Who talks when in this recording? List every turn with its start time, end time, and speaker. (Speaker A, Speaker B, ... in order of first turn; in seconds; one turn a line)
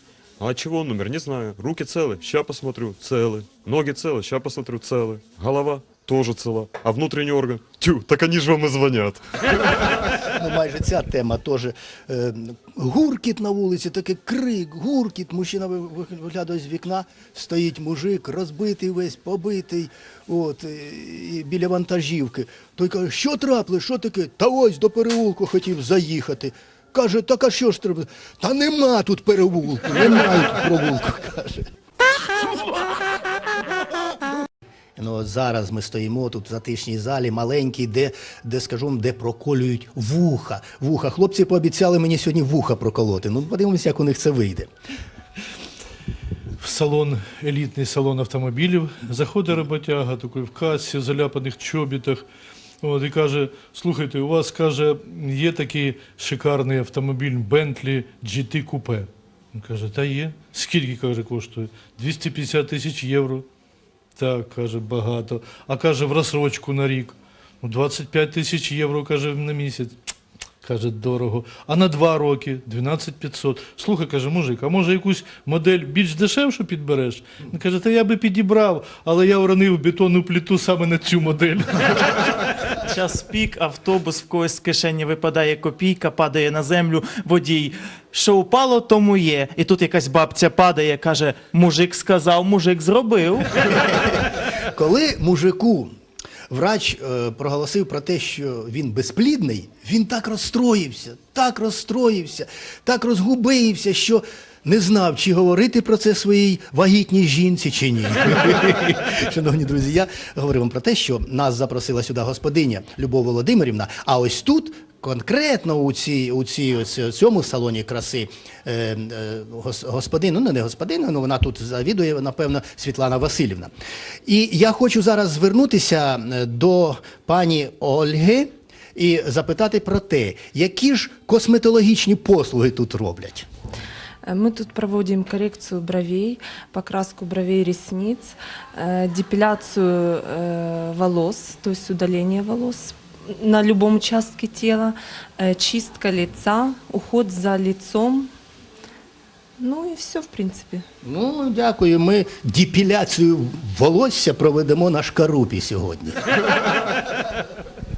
Speaker A: 0.4-9.7
Speaker B: 10.3-31.7
Speaker B: 35.0-44.7
Speaker C: 46.6-52.3
Speaker C: 52.8-63.4
Speaker C: 64.2-70.0
Speaker C: 70.6-82.0
Speaker D: 82.8-93.5
Speaker B: 93.6-95.9
Speaker B: 96.5-123.7
Speaker B: 124.2-133.5
Speaker E: 134.2-148.3
Speaker E: 149.6-150.8
Speaker B: 151.0-156.2